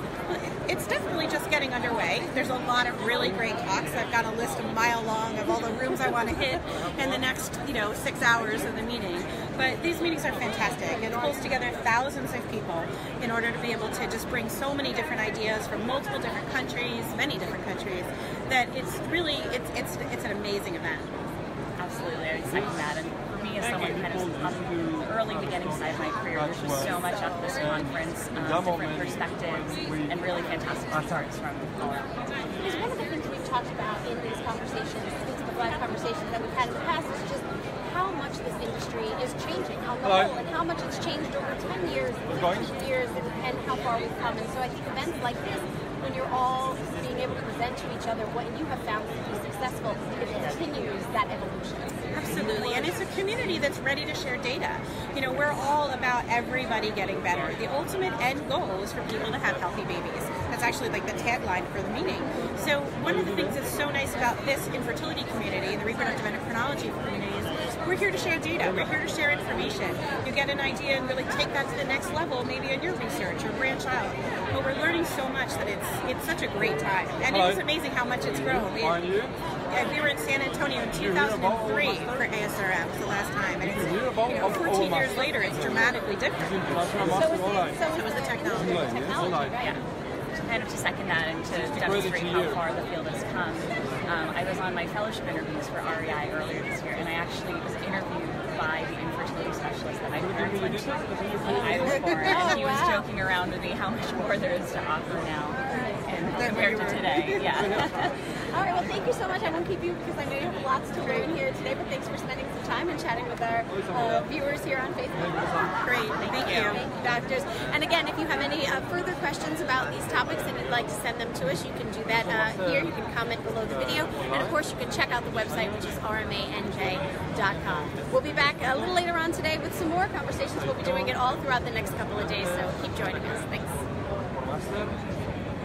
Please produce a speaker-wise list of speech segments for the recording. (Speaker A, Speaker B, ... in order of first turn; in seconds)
Speaker A: 0.3-21.1, 52.1-79.1, 79.7-87.2, 87.9-88.9, 115.8-116.8
Speaker B: 21.8-32.2, 89.5-89.8, 90.4-108.4
Speaker C: 27.0-27.4, 32.6-52.0, 87.0-89.8, 101.6-103.0, 105.7-106.0, 108.5-133.8